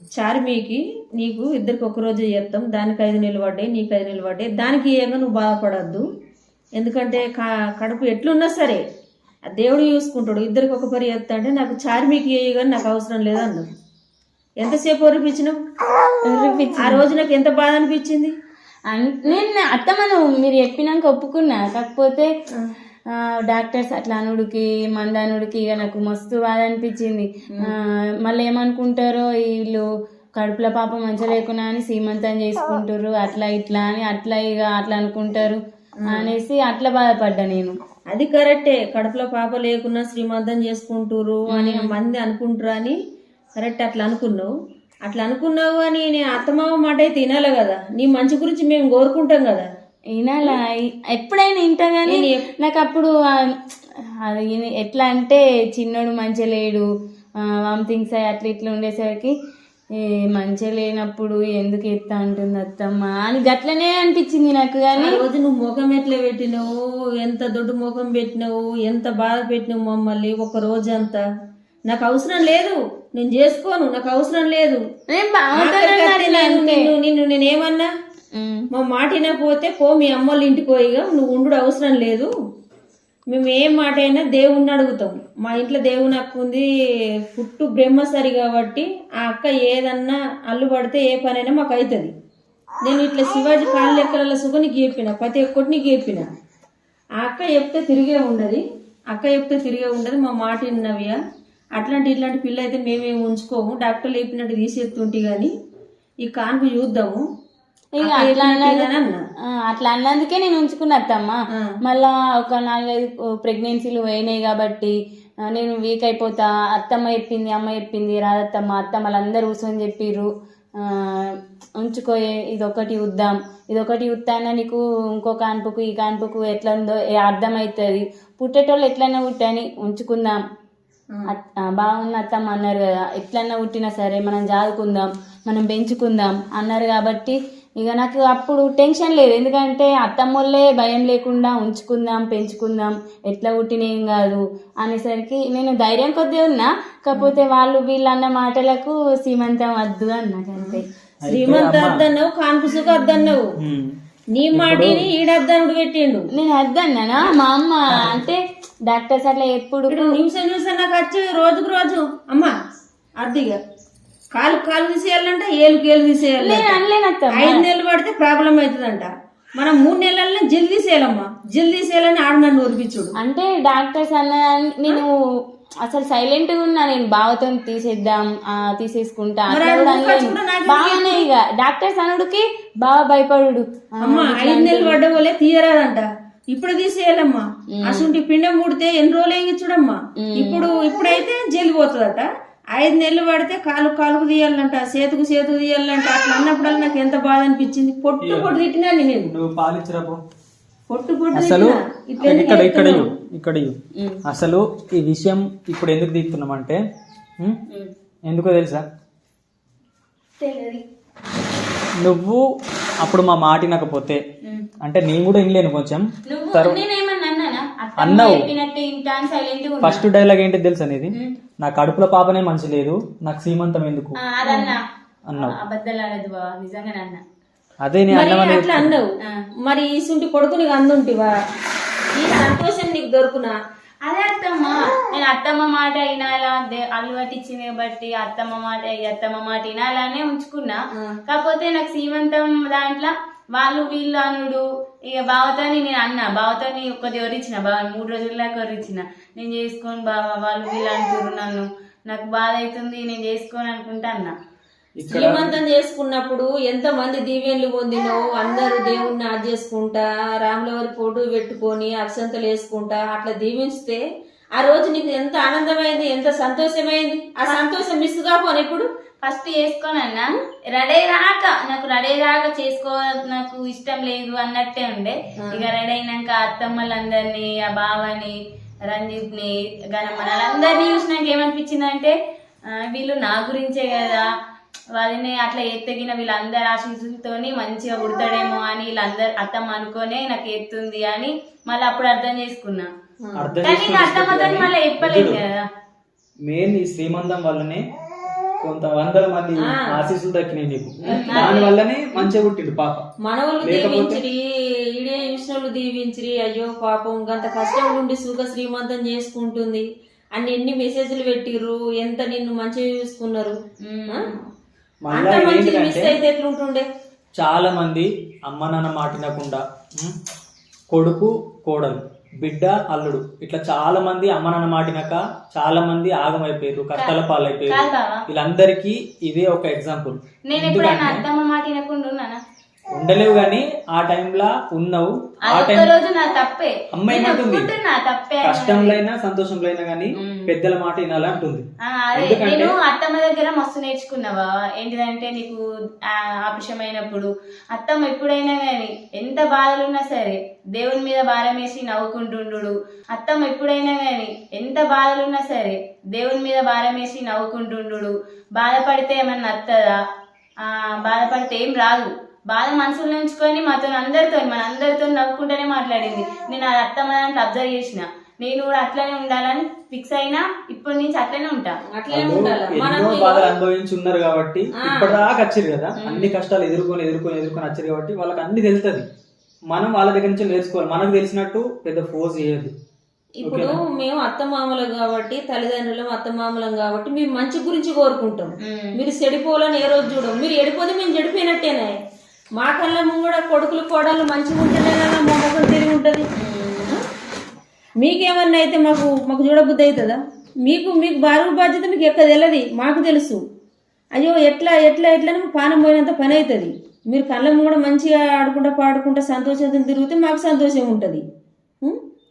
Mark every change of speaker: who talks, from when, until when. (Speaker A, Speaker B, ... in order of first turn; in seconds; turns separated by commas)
Speaker A: 0.1-6.0, Speaker A: 6.8-8.8, Speaker A: 9.5-13.7, Speaker A: 14.6-15.6, Speaker B: 16.2-17.0, Speaker A: 16.8-18.3, Speaker B: 18.9-22.3, Speaker B: 23.1-37.7, Speaker A: 36.0-36.3, Speaker A: 38.1-43.0, Speaker B: 41.5-41.9, Speaker A: 43.6-44.5, Speaker A: 45.0-49.7, Speaker B: 50.1-53.6, Speaker A: 52.0-52.4, Speaker B: 54.2-56.9, Speaker B: 57.4-59.3, Speaker B: 60.0-65.2, Speaker A: 65.0-71.2, Speaker A: 71.9-74.8, Speaker B: 75.1-76.9, Speaker A: 75.5-77.9, Speaker B: 78.3-78.7, Speaker A: 78.7-82.3, Speaker A: 83.3-86.7, Speaker A: 87.2-92.1, Speaker A: 92.8-96.2, Speaker A: 97.2-101.2, Speaker A: 101.8-105.5, Speaker A: 106.2-107.2, Speaker B: 108.0-114.9, Speaker A: 108.0-109.2, Speaker B: 115.5-130.4, Speaker B: 131.3-150.8, Speaker A: 150.6-153.5, Speaker C: 151.2-152.0, Speaker B: 152.8-153.3, Speaker C: 153.6-153.9, Speaker A: 154.3-156.3, Speaker C: 154.5-155.0, Speaker B: 156.3-160.2, Speaker A: 159.9-162.5, Speaker A: 163.2-163.6, Speaker A: 164.3-166.8, Speaker B: 166.4-167.6, Speaker A: 167.3-173.1, Speaker B: 173.2-175.1, Speaker B: 175.8-185.0, Speaker A: 179.5-181.3, Speaker A: 184.0-199.3, Speaker B: 187.7-188.1, Speaker B: 190.2-190.7, Speaker C: 198.2-198.5, Speaker C: 199.3-200.2, Speaker A: 200.9-203.1, Speaker C: 201.3-206.8, Speaker B: 203.9-204.2, Speaker C: 208.3-208.8, Speaker A: 210.4-210.8, Speaker C: 212.0-212.4, Speaker C: 213.0-214.2, Speaker C: 214.8-216.8, Speaker B: 216.3-220.0, Speaker C: 218.0-218.5, Speaker C: 219.8-224.2, Speaker B: 224.2-224.8, Speaker A: 224.4-224.7, Speaker C: 225.3-225.5, Speaker B: 225.3-227.2, Speaker C: 227.8-228.9, Speaker A: 228.1-229.1, Speaker A: 229.6-231.3, Speaker A: 232.2-233.6, Speaker B: 234.0-254.3, Speaker C: 255.0-255.5, Speaker A: 255.1-264.0, Speaker A: 264.6-268.9, Speaker B: 269.2-278.4, Speaker B: 278.9-282.1, Speaker B: 282.7-284.3, Speaker B: 284.9-292.9, Speaker A: 293.2-293.6, Speaker C: 293.4-295.4, Speaker B: 293.6-295.6, Speaker C: 296.4-297.8, Speaker C: 298.6-303.1, Speaker A: 299.6-300.0, Speaker A: 301.1-301.7, Speaker B: 301.1-301.7, Speaker A: 303.2-304.4, Speaker C: 303.6-304.2, Speaker A: 305.0-313.6, Speaker B: 313.8-314.3, Speaker C: 315.0-316.1, Speaker A: 315.1-316.9, Speaker C: 317.4-320.2, Speaker C: 320.9-331.2, Speaker B: 327.7-328.2, Speaker B: 330.5-332.4, Speaker C: 332.9-335.9, Speaker B: 335.5-339.0, Speaker C: 336.9-337.7, Speaker C: 338.4-342.8, Speaker B: 340.2-340.5, Speaker B: 341.8-360.0, Speaker B: 360.6-371.8, Speaker A: 371.9-373.5, Speaker C: 372.1-379.0, Speaker A: 374.8-375.2, Speaker B: 376.0-376.3, Speaker C: 379.7-382.7, Speaker A: 383.4-391.9, Speaker C: 383.4-383.8, Speaker B: 388.6-389.0, Speaker A: 392.6-396.3, Speaker B: 396.4-396.9, Speaker A: 398.0-403.4, Speaker A: 404.1-411.2